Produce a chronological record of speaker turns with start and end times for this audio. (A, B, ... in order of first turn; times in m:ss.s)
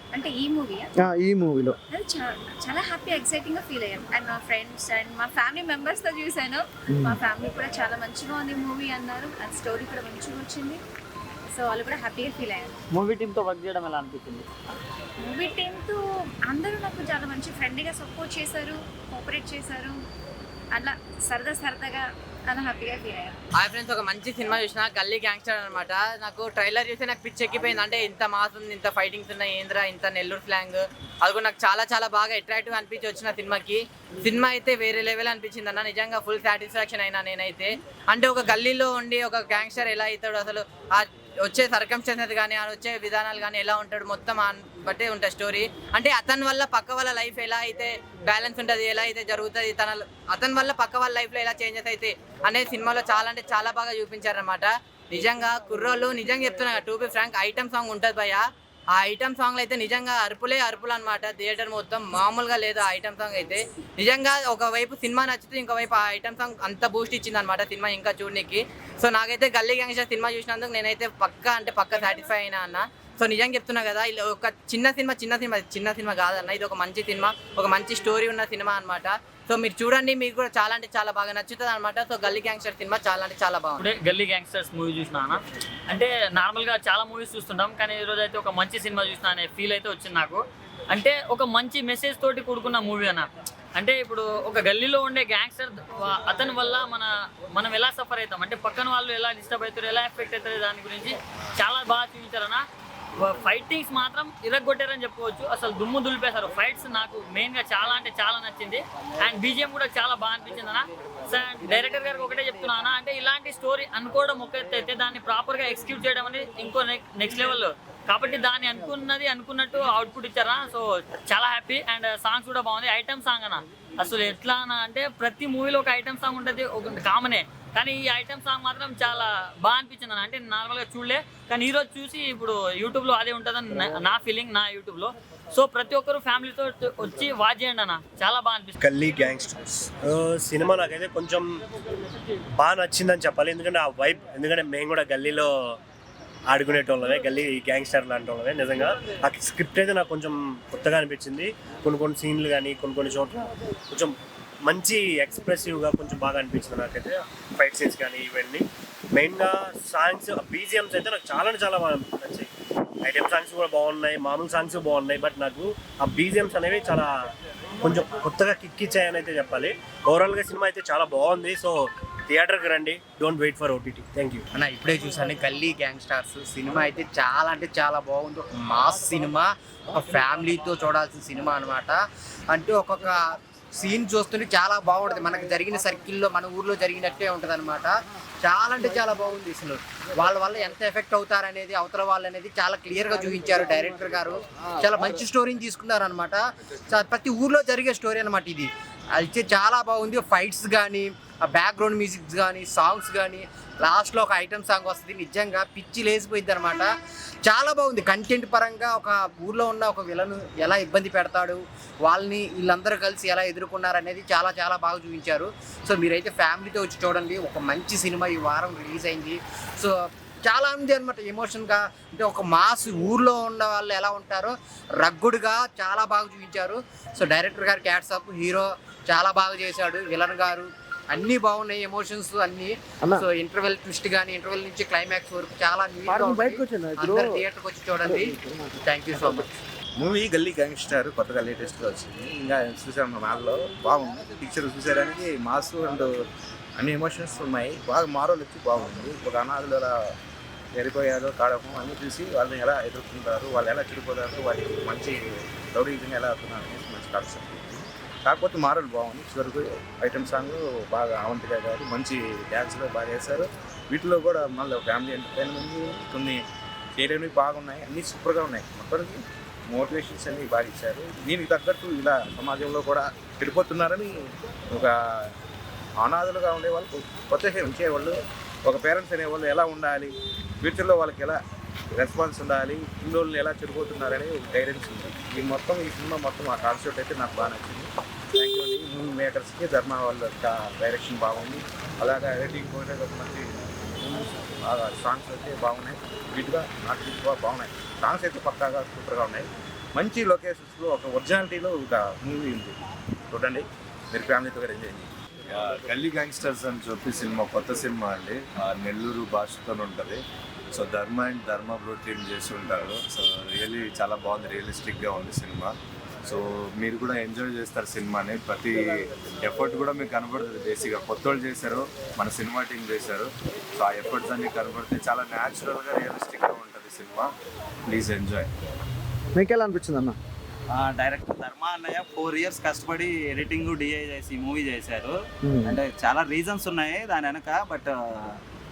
0:00.1-0:00.9 A
0:01.0-0:01.8 B
0:01.9-0:10.8 A
0:06.9-0:07.2 B
0:11.5-0:12.7 A
0:12.9-0:14.4 C
0:15.2-0:20.0 A
0:20.7-0:23.4 A
0:23.6-0:58.4 D
0:58.9-1:23.9 D
1:23.8-1:42.6 C
1:43.2-2:18.8 C
2:18.8-2:21.5 E
2:22.6-2:25.8 E
2:26.5-2:42.5 E
2:43.0-2:47.1 E
2:47.8-2:54.4 E
2:54.5-3:02.0 F
3:02.5-3:03.2 F
3:03.8-3:07.9 F
3:08.4-3:26.9 F
3:27.4-3:39.9 F
3:40.4-3:59.4 F
3:56.1-3:57.4 B
3:58.0-3:58.7 B
4:00.0-4:06.1 G
4:06.8-4:09.9 G
4:10.7-4:15.2 G
4:15.7-4:26.4 G
4:27.0-4:34.1 G
4:34.7-4:35.3 G
4:36.0-4:41.4 G
4:42.0-5:02.7 G
5:03.3-5:05.1 G
5:05.5-5:10.1 H
5:10.7-5:15.6 H
5:16.2-5:27.3 H
5:27.9-5:28.5 H
5:29.3-5:30.2 B
5:30.7-5:38.4 I
5:35.4-5:35.8 B